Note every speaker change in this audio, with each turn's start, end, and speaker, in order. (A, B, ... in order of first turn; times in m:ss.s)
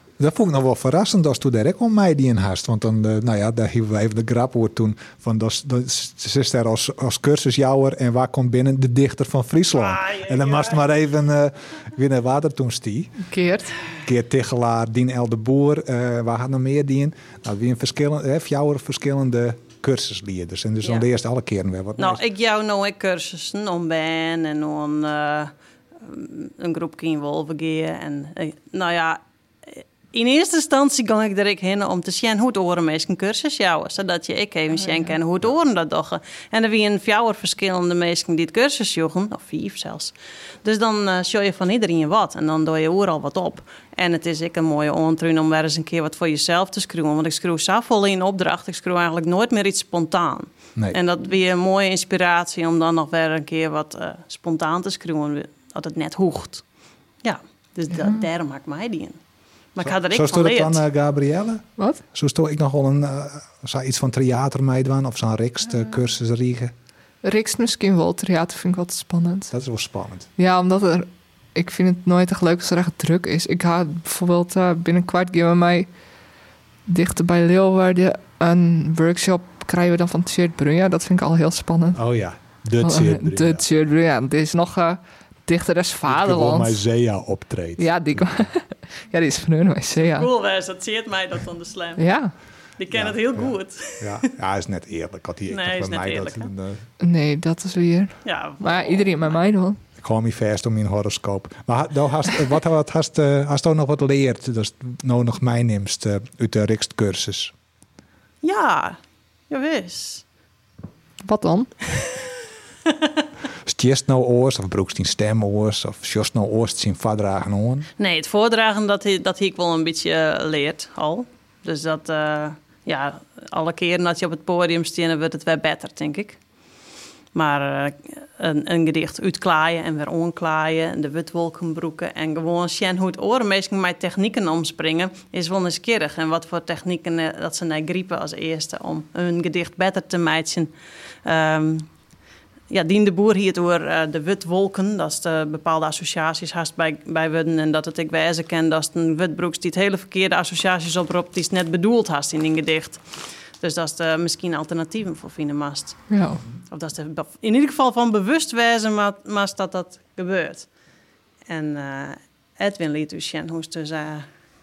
0:00.2-0:13.2 A
0:09.7-0:10.8 B
0:13.2-0:13.8 C
0:14.0-0:22.2 A
0:20.8-0:21.1 B
0:22.0-0:56.6 B
0:34.9-0:35.1 C
0:57.2-0:59.2 B
0:57.9-0:58.2 C
0:59.7-1:00.8 B
0:59.8-1:06.7 A
1:07.2-1:09.5 C
1:09.5-1:10.3 A
1:10.4-1:15.9 C
1:16.9-1:22.0 C
1:21.9-1:23.6 A
1:22.8-1:26.8 C
1:26.1-1:28.5 A
1:27.8-1:30.3 C
1:30.0-1:32.0 B
1:32.0-1:32.3 C
1:32.8-1:34.3 B
1:32.9-1:36.8 A
1:35.5-1:36.5 B
1:37.0-1:39.8 C
1:38.2-1:39.4 B
1:40.0-1:47.5 A
1:48.4-1:49.0 B
1:49.5-1:50.2 B
1:51.2-1:51.7 C
1:53.6-1:57.9 A
1:58.0-2:06.4 B
2:07.3-2:20.7 B
2:21.2-2:21.9 B
2:22.7-2:33.0 B
2:33.6-2:36.1 B
2:36.1-2:36.4 C
2:36.7-2:40.7 B
2:41.5-2:44.2 B